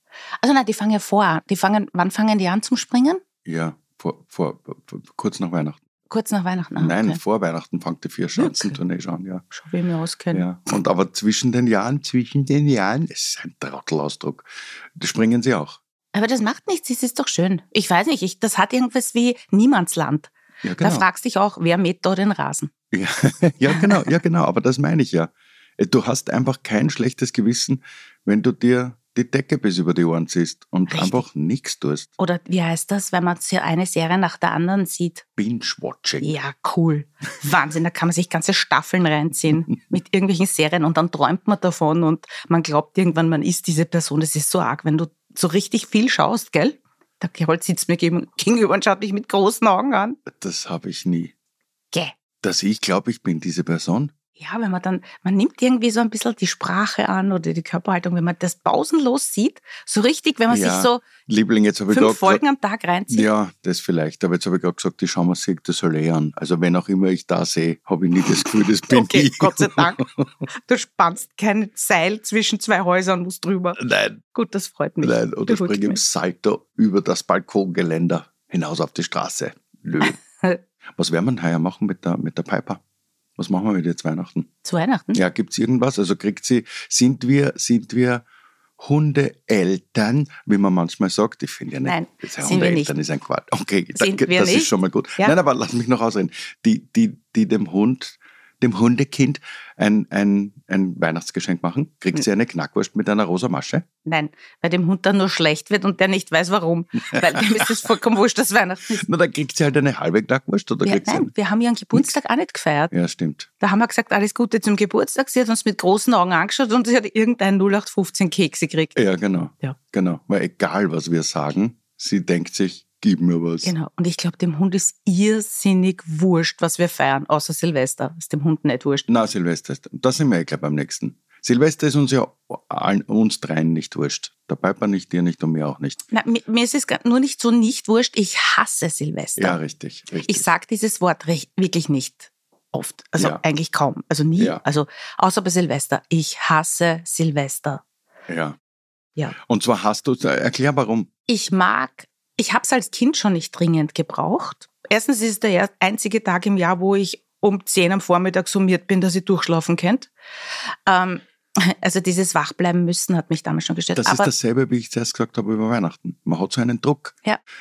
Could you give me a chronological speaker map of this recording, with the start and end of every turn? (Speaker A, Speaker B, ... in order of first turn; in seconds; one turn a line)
Speaker A: 0.4-3.2
Speaker B: 3.4-5.8
Speaker A: 6.1-7.2
Speaker B: 6.8-9.4
Speaker A: 8.4-8.8
Speaker A: 9.5-10.4
Speaker B: 10.3-15.8
Speaker A: 16.1-22.7
Speaker B: 20.6-21.0
Speaker B: 22.9-32.1
Speaker A: 23.7-24.0
Speaker A: 30.9-31.2
Speaker A: 32.2-35.2
Speaker B: 35.4-36.4
Speaker A: 36.2-50.2
Speaker B: 50.2-51.3
Speaker B: 52.4-54.1
Speaker A: 54.4-61.0
Speaker B: 60.5-62.4
Speaker A: 61.9-63.3
Speaker B: 63.1-70.3
Speaker A: 68.9-70.0
Speaker A: 70.6-76.0
Speaker B: 73.8-74.2
Speaker B: 75.0-80.2
Speaker A: 80.0-80.6
Speaker B: 81.0-82.8
Speaker B: 83.4-84.5
Speaker A: 84.6-85.2
Speaker B: 85.1-88.2
Speaker B: 88.8-103.8
Speaker A: 91.8-92.9
Speaker A: 93.9-95.3
Speaker A: 104.0-109.0
Speaker B: 107.1-107.7
Speaker B: 109.0-111.3
Speaker A: 110.8-112.9
Speaker B: 112.9-113.5
Speaker A: 113.6-119.0
Speaker B: 119.0-123.7
Speaker A: 123.6-129.1
Speaker B: 129.1-136.0
Speaker A: 136.1-139.6
Speaker B: 139.4-140.5
Speaker A: 140.2-147.8
Speaker B: 143.2-143.4
Speaker B: 148.3-148.6
Speaker B: 149.4-151.1
Speaker A: 151.3-160.1
Speaker A: 160.8-164.3
Speaker B: 163.9-167.2